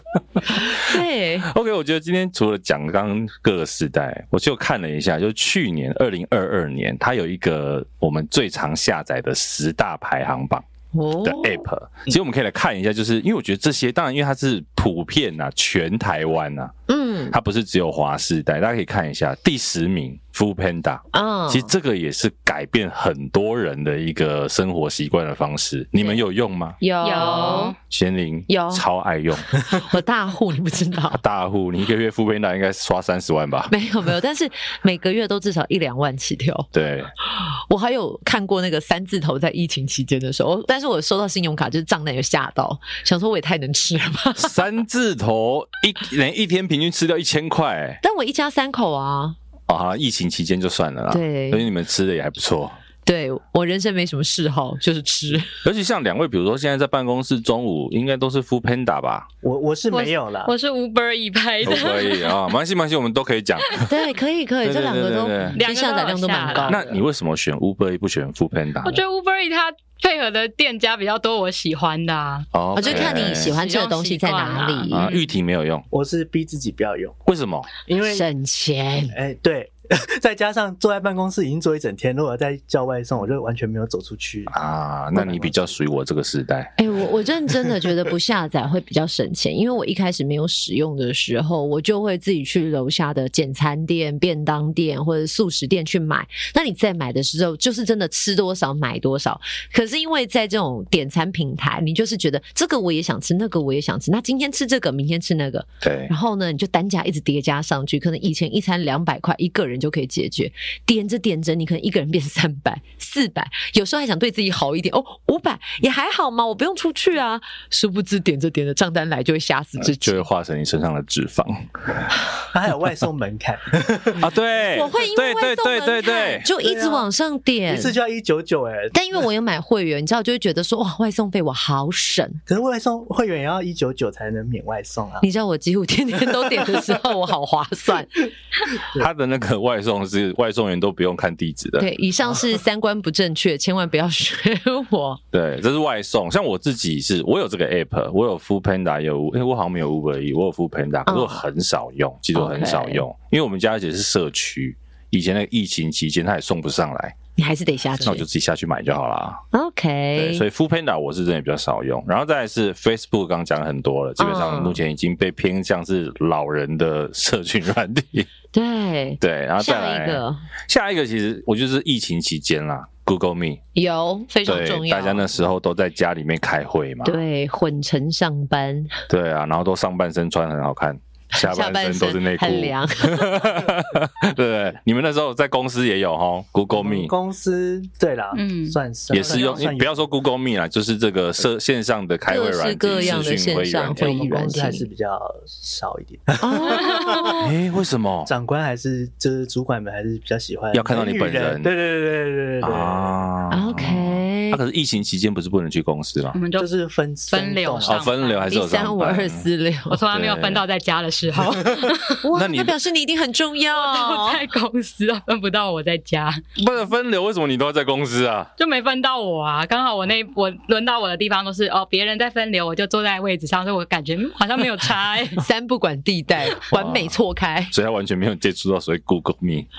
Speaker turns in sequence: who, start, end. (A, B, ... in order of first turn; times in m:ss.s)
0:00.4-0:01.5 A
0:00.4-0:10.6 B
0:10.9-0:11.6 A
0:11.2-0:16.7 B
0:16.9-0:17.4 A
0:17.3-0:26.8 B
0:21.1-0:21.7 A
0:26.8-0:27.8 A
0:27.0-0:27.8 C
0:27.8-0:29.5 B
0:28.5-0:28.8 A
0:29.6-0:31.2 A
0:31.1-0:33.7 B
0:33.7-0:36.7 A
0:36.7-0:37.1 B
0:37.2-0:44.6 A
0:44.4-0:48.0 B
0:48.0-0:49.4 A
0:49.7-0:52.8 B
0:51.1-0:51.6 A
0:53.0-0:55.6 A
0:55.6-0:59.3 B
0:59.4-1:00.5 D
0:59.9-1:02.4 C
1:01.6-1:03.9 B
1:03.8-1:07.0 A
1:04.6-1:05.6 B
1:05.6-1:06.9 C
1:06.6-1:09.0 B
1:08.8-1:15.3 C
1:12.5-1:13.5 B
1:12.7-1:15.1 A
1:14.9-1:15.8 B
1:15.9-1:17.2 D
1:17.2-1:17.7 B
1:17.8-1:18.3 D
1:18.0-1:19.2 A
1:19.1-1:24.5 D
1:24.5-1:26.8 B
1:25.2-1:25.7 D
1:26.8-2:00.2 A
1:45.8-1:46.1 B
1:59.8-2:02.1 B
2:02.5-2:04.3 D
2:04.2-2:06.5 B
2:04.6-2:08.0 A
2:06.6-2:07.1 D
2:07.7-2:09.0 D
2:08.9-2:12.4 A
2:12.5-2:15.3 D
2:15.2-2:18.3 A
2:16.3-2:16.9 D
2:18.9-2:21.9 B
2:21.8-2:25.2 A
2:25.3-2:37.2 B
2:31.0-2:31.4 A
2:32.3-2:33.0 A
2:37.4-2:38.2 A
2:38.0-2:39.4 B
2:39.5-2:40.4 A
2:40.1-2:48.3 B
2:44.2-2:44.8 A
2:48.5-2:50.4 A
2:49.2-2:53.6 B
2:53.7-2:55.4 A
2:54.4-2:57.2 B
2:57.0-2:59.0 A
2:59.1-3:07.1 B
3:01.3-3:03.6 A
3:06.7-3:10.0 D
3:08.3-3:08.8 C
3:09.1-3:14.1 B
3:12.3-3:14.9 A
3:13.9-3:17.4 D
3:16.4-3:17.5 A
3:16.7-3:17.2 C
3:17.3-3:18.3 B
3:18.2-3:23.2 D
3:20.7-3:21.7 B
3:22.6-3:26.4 B
3:23.5-3:24.6 A
3:26.3-3:26.7 C
3:26.6-3:28.1 D
3:27.3-3:28.4 C
3:27.9-3:29.4 B
3:28.5-3:30.0 A
3:29.9-3:32.2 C
3:30.1-3:30.6 B
3:32.2-3:34.4 A
3:32.3-3:32.7 B
3:33.7-3:36.4 C
3:36.6-3:38.5 B
3:38.6-3:45.4 C
3:45.4-3:47.7 A
3:46.7-3:47.1 B
3:47.7-3:49.7 B